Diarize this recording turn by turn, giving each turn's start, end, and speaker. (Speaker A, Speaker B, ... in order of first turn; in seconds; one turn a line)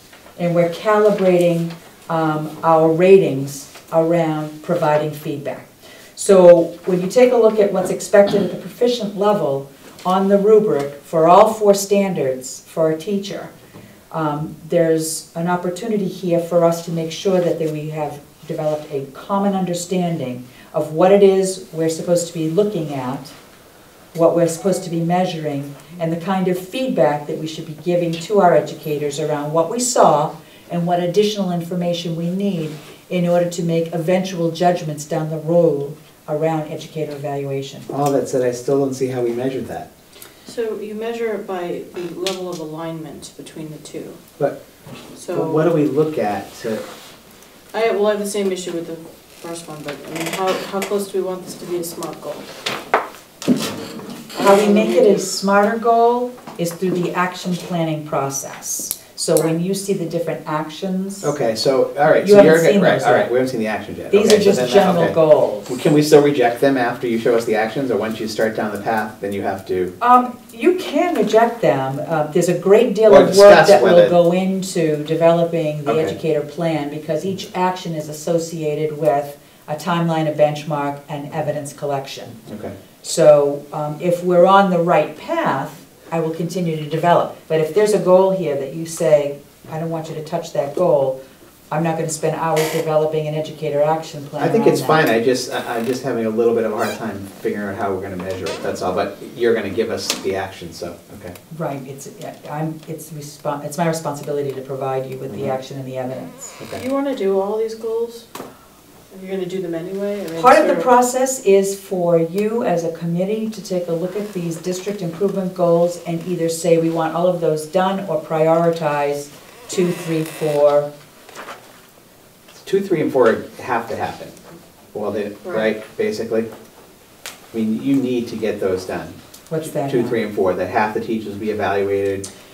Speaker A: 0.4-13.5
Speaker A: 14.1-23.3
Speaker A: 24.1-37.9
Speaker B: 37.9-39.9
Speaker C: 40.5-44.2
Speaker C: 45.2-45.7
Speaker B: 45.3-46.8
Speaker C: 47.7-52.5
Speaker C: 54.3-55.2
Speaker A: 54.4-61.3
Speaker B: 61.2-70.0
Speaker A: 62.2-63.3
Speaker A: 64.1-65.8
Speaker A: 70.0-82.4
Speaker B: 73.1-74.2
Speaker B: 75.9-76.2
Speaker B: 82.5-82.8
Speaker A: 83.0-91.2
Speaker A: 91.7-95.0
Speaker B: 94.4-101.3
Speaker A: 101.5-106.6
Speaker C: 106.8-108.3
Speaker C: 109.1-110.9
Speaker A: 110.4-120.9
Speaker B: 122.6-124.4
Speaker B: 124.9-126.5
Speaker B: 127.5-129.2
Speaker A: 129.5-130.2
Speaker B: 129.7-132.3